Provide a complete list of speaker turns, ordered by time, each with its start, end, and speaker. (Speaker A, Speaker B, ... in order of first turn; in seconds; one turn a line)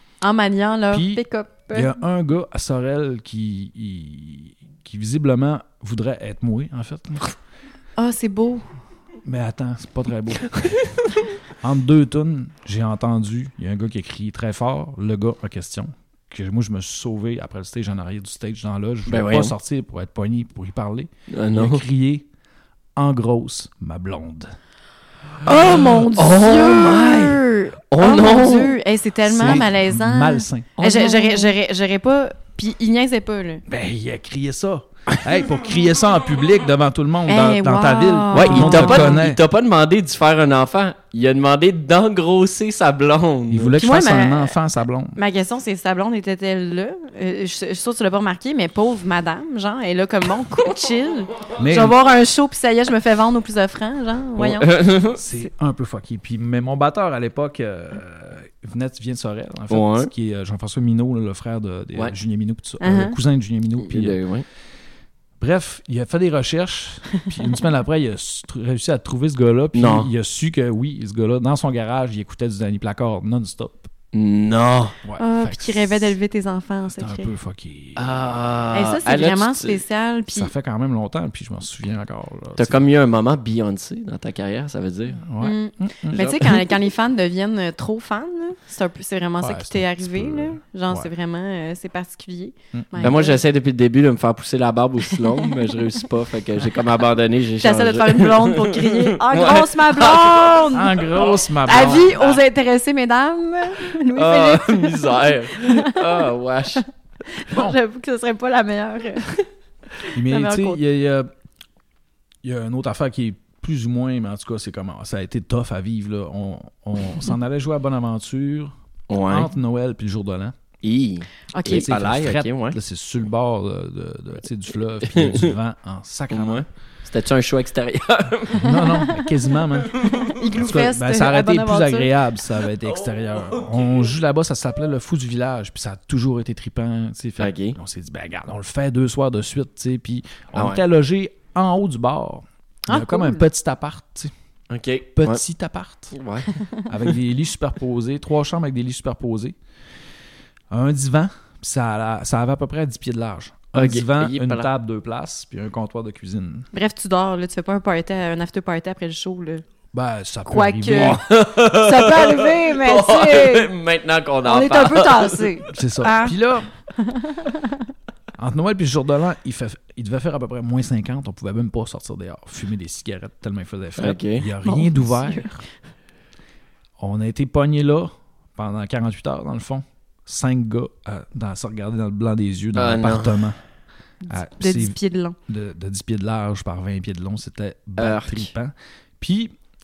Speaker A: 0.2-1.9
Speaker B: 0.9-7.3
Speaker A: 8.0-8.6
Speaker B: 9.2-10.6
Speaker B: 11.6-22.2
Speaker C: 19.1-19.5
Speaker C: 21.3-21.8
Speaker B: 22.9-24.5
Speaker A: 25.4-33.6
Speaker C: 25.8-28.8
Speaker B: 29.2-31.0
Speaker B: 33.7-39.4
Speaker A: 37.3-39.2
Speaker C: 38.3-43.7
Speaker B: 43.5-45.2
Speaker A: 43.8-44.5
Speaker A: 45.1-54.8
Speaker B: 51.6-52.0
Speaker C: 54.4-55.2
Speaker B: 55.1-64.2
Speaker C: 59.7-60.1
Speaker A: 62.8-63.1
Speaker C: 63.8-64.5
Speaker B: 65.4-73.9
Speaker C: 69.7-70.1
Speaker C: 74.1-75.0
Speaker B: 75.0-76.1
Speaker A: 75.2-77.3
Speaker B: 77.0-78.4
Speaker C: 78.0-79.8
Speaker A: 78.7-80.5
Speaker B: 80.3-82.8
Speaker C: 82.6-85.2
Speaker B: 85.1-86.3
Speaker A: 85.4-93.4
Speaker C: 86.1-86.6
Speaker B: 89.4-91.1
Speaker B: 92.7-93.2
Speaker C: 93.0-102.4
Speaker A: 95.2-95.5
Speaker A: 97.6-101.1
Speaker B: 100.7-102.1
Speaker A: 101.6-106.3
Speaker C: 104.1-106.8
Speaker A: 107.3-109.4
Speaker B: 107.5-107.8
Speaker B: 110.1-111.3
Speaker A: 110.1-110.8
Speaker B: 112.4-120.5
Speaker C: 119.1-119.5
Speaker C: 120.8-122.8
Speaker A: 121.5-121.9
Speaker B: 121.7-126.7
Speaker C: 125.0-125.5
Speaker C: 126.3-129.0
Speaker B: 128.5-144.3
Speaker A: 128.7-129.2
Speaker C: 129.9-130.3
Speaker A: 130.0-132.2
Speaker C: 133.1-134.0
Speaker C: 137.4-137.8
Speaker C: 140.5-140.8
Speaker A: 142.9-143.4
Speaker C: 144.7-145.4
Speaker B: 145.2-146.1
Speaker C: 146.1-146.5
Speaker B: 146.9-149.6
Speaker B: 150.7-156.7
Speaker C: 153.7-154.7
Speaker A: 156.7-159.6
Speaker B: 159.9-161.2
Speaker A: 160.4-163.7
Speaker C: 160.9-165.6
Speaker A: 164.4-166.3
Speaker B: 165.7-166.7
Speaker A: 167.0-167.8
Speaker B: 168.4-175.6
Speaker C: 174.0-174.5
Speaker A: 174.6-175.6
Speaker B: 177.0-183.6
Speaker C: 182.7-183.5
Speaker A: 184.2-185.3
Speaker B: 184.3-184.9
Speaker B: 185.5-189.5
Speaker C: 188.0-188.5